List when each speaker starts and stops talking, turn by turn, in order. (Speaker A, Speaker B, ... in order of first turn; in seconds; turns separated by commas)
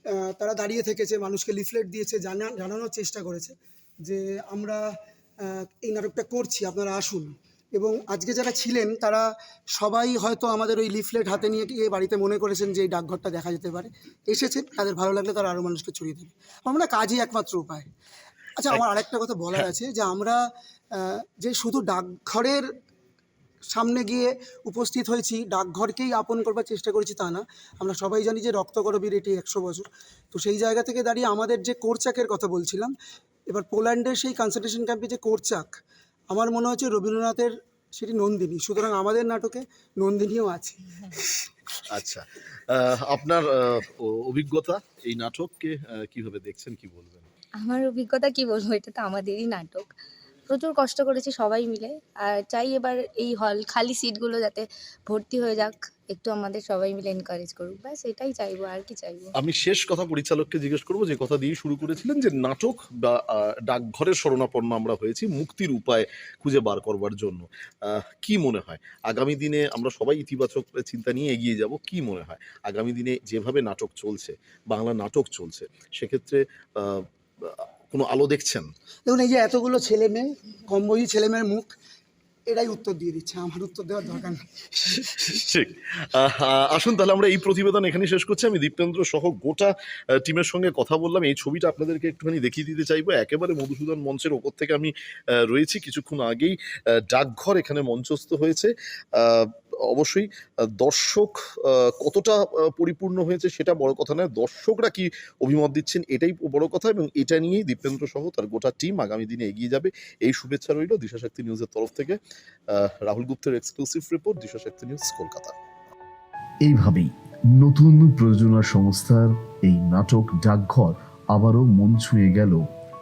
Speaker A: 0.3-4.8, Speaker A: 5.4-17.9, Speaker A: 18.6-20.4, Speaker A: 20.9-22.6, Speaker A: 23.7-32.9, Speaker A: 33.5-35.7, Speaker A: 36.3-40.9, Speaker B: 42.0-47.3, Speaker C: 47.6-49.9, Speaker C: 50.5-59.3, Speaker B: 59.4-78.7, Speaker A: 79.0-81.7, Speaker A: 82.5-84.9, Speaker B: 85.0-112.2, Speaker B: 112.7-115.5, Speaker D: 116.6-122.6